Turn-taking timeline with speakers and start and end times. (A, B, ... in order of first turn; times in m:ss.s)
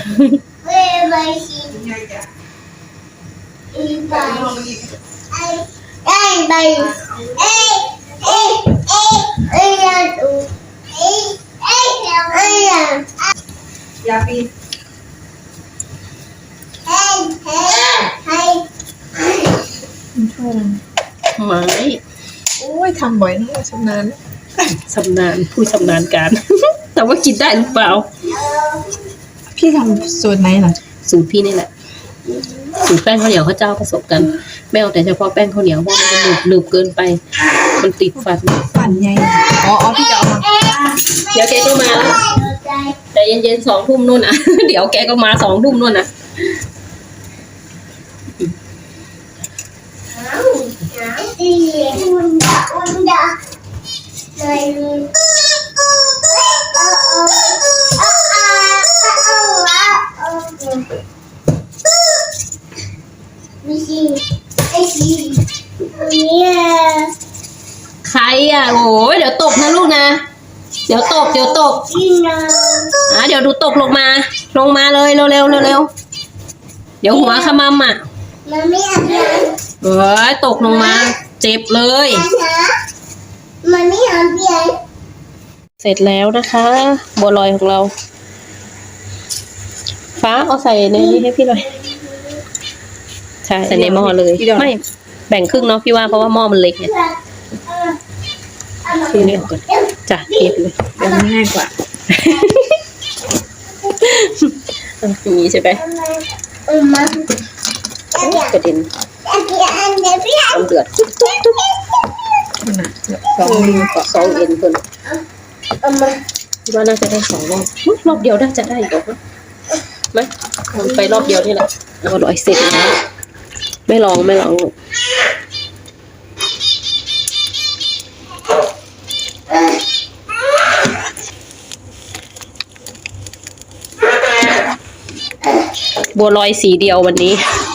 0:00.6-0:01.8 A
0:01.7-0:02.3 B
0:03.7-0:04.6 A
0:04.1-0:05.0 B
0:05.3-0:13.1 A
0:06.8-0:07.8 B
0:14.0-0:14.5 B
0:16.9-0:19.5 A
0:20.2-0:20.8 B
0:21.4-0:22.0 C
0:22.6-0:24.6 B
0:24.7-0:28.1 C
0:28.3-0:28.9 A
0:29.5-0:30.8 B
0:31.0-0:31.7 C
0:32.8-0:37.2 C
0:37.8-0:38.9 C
0:38.8-0:41.0 B
0:39.9-0:43.0 A
0:41.3-0:42.2 C
0:43.1-0:46.1 C
0:50.1-0:53.4 A
0:54.4-1:00.9 A
1:03.6-1:07.1 A
1:08.0-1:10.2 C
1:10.9-1:11.8 C
1:11.0-1:13.0 A
1:13.1-1:15.9 C
1:17.0-1:18.0 C
1:17.1-1:17.6 A
1:18.5-1:19.6 A
1:19.8-1:22.3 C
1:20.5-1:21.1 A
1:22.1-1:22.8 A
1:23.6-1:24.8 A
1:25.8-1:27.9 C
1:30.2-1:31.7 C
1:30.9-1:32.4 A
1:33.4-1:36.9 C
1:33.7-1:34.8 B
1:35.6-1:36.3 A
1:36.8-1:38.0 A
1:38.8-1:41.3 A
1:39.1-1:40.9 C
1:41.0-1:41.7 B
1:42.1-1:42.8 C
1:44.0-1:45.8 C
1:45.8-1:47.3 A
1:48.1-1:48.6 A
1:48.2-1:48.9 C
1:49.3-1:50.7 A
1:50.5-1:51.6 C
1:51.5-1:52.0 A
1:52.6-1:53.9 B
1:53.4-1:54.8 C
1:54.0-1:54.5 A
1:55.8-1:56.2 A
1:56.7-1:59.2 C
2:00.1-2:03.0 C
2:00.8-2:01.2 A
2:03.9-2:04.7 C
2:16.1-2:17.4 C